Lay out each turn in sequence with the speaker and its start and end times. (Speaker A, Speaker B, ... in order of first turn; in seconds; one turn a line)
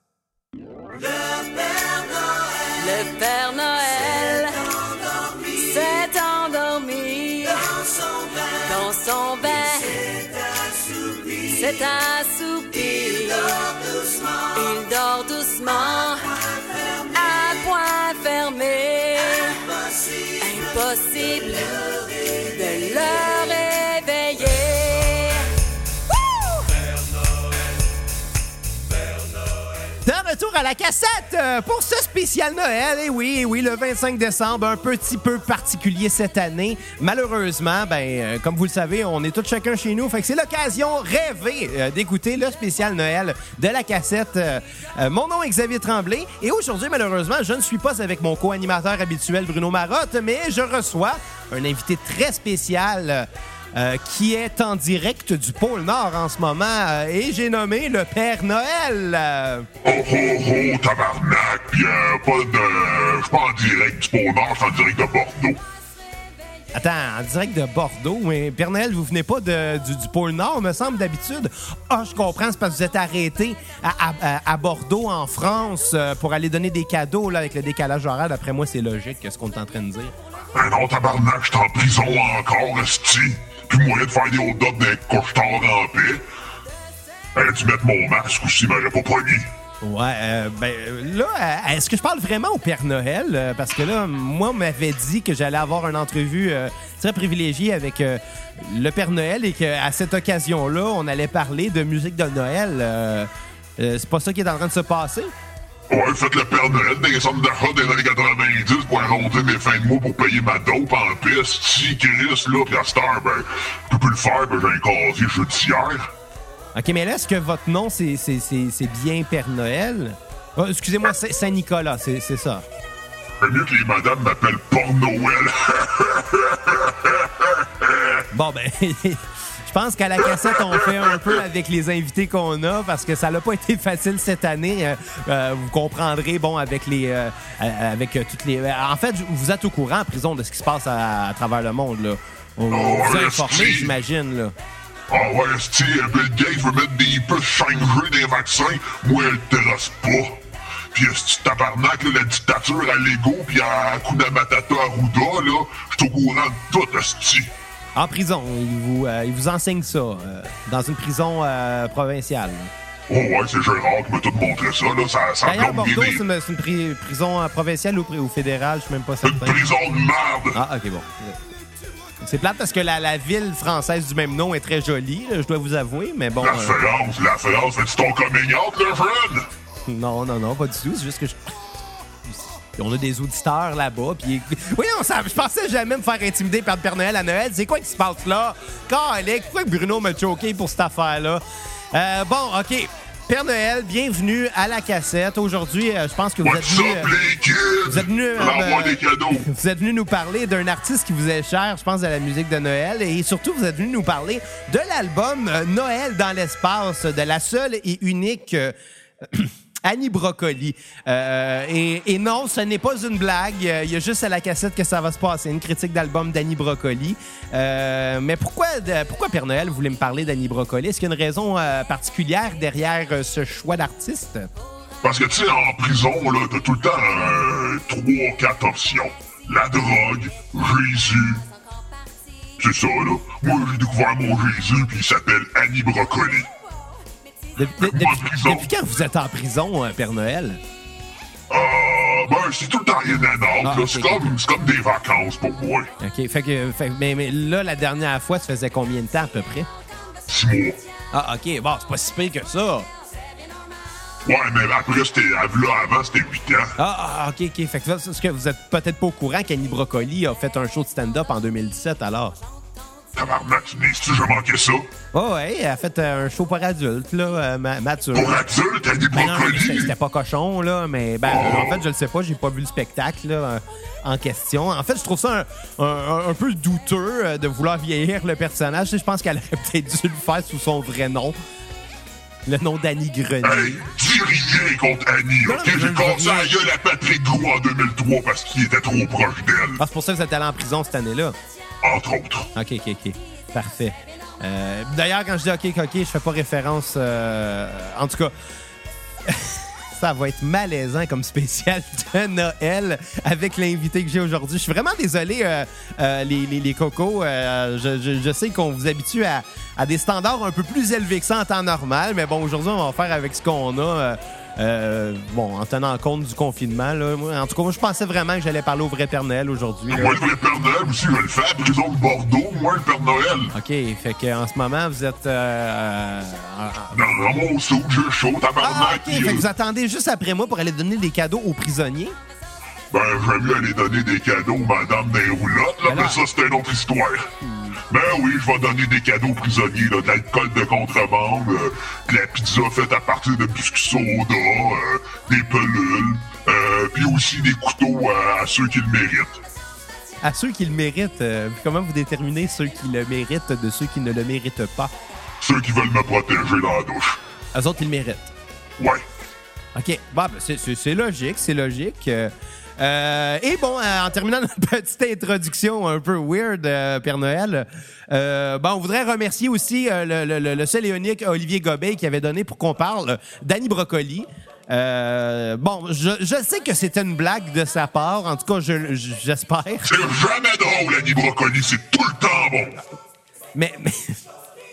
Speaker A: 1.2-10.3
Speaker A: 11.2-16.4
Speaker A: 17.1-25.5
Speaker B: 30.0-59.7
Speaker C: 59.8-65.6
Speaker B: 66.7-80.1
Speaker C: 80.5-86.2
Speaker C: 87.3-89.5
Speaker B: 89.8-105.3
Speaker C: 105.9-116.1
Speaker B: 116.7-122.7
Speaker C: 123.4-128.2
Speaker B: 128.3-144.5
Speaker C: 130.4-131.3
Speaker C: 142.7-144.0
Speaker C: 145.1-157.5
Speaker B: 157.9-162.7
Speaker C: 163.1-166.2
Speaker B: 165.4-169.7
Speaker C: 169.2-170.6
Speaker B: 170.5-171.4
Speaker B: 172.2-176.8
Speaker C: 176.4-179.5
Speaker B: 179.9-181.5
Speaker B: 182.2-197.1
Speaker C: 196.4-199.5
Speaker B: 197.8-224.5
Speaker C: 225.0-231.4
Speaker C: 232.6-236.5
Speaker B: 237.6-240.6
Speaker C: 237.8-238.7
Speaker C: 241.5-245.9
Speaker B: 243.6-244.3
Speaker B: 246.0-249.7
Speaker C: 250.3-250.8
Speaker B: 251.1-252.9
Speaker C: 254.2-256.7
Speaker B: 256.8-262.4
Speaker C: 263.1-264.9
Speaker B: 265.1-268.5
Speaker C: 268.1-269.9
Speaker B: 269.1-281.4
Speaker C: 271.2-271.8
Speaker B: 282.4-283.8
Speaker C: 283.4-289.8
Speaker B: 285.4-286.6
Speaker B: 289.8-291.4
Speaker C: 291.8-292.5
Speaker B: 292.5-298.3
Speaker B: 299.2-320.2
Speaker C: 319.9-323.5
Speaker B: 323.5-327.2
Speaker C: 326.9-329.5
Speaker B: 328.6-332.1
Speaker C: 332.9-337.3
Speaker B: 335.9-336.2
Speaker B: 337.4-337.8
Speaker C: 337.9-349.4
Speaker B: 350.2-354.9
Speaker C: 355.4-357.2
Speaker B: 357.5-358.3
Speaker C: 358.8-359.0
Speaker B: 359.7-380.1
Speaker C: 379.8-382.8
Speaker B: 383.5-384.2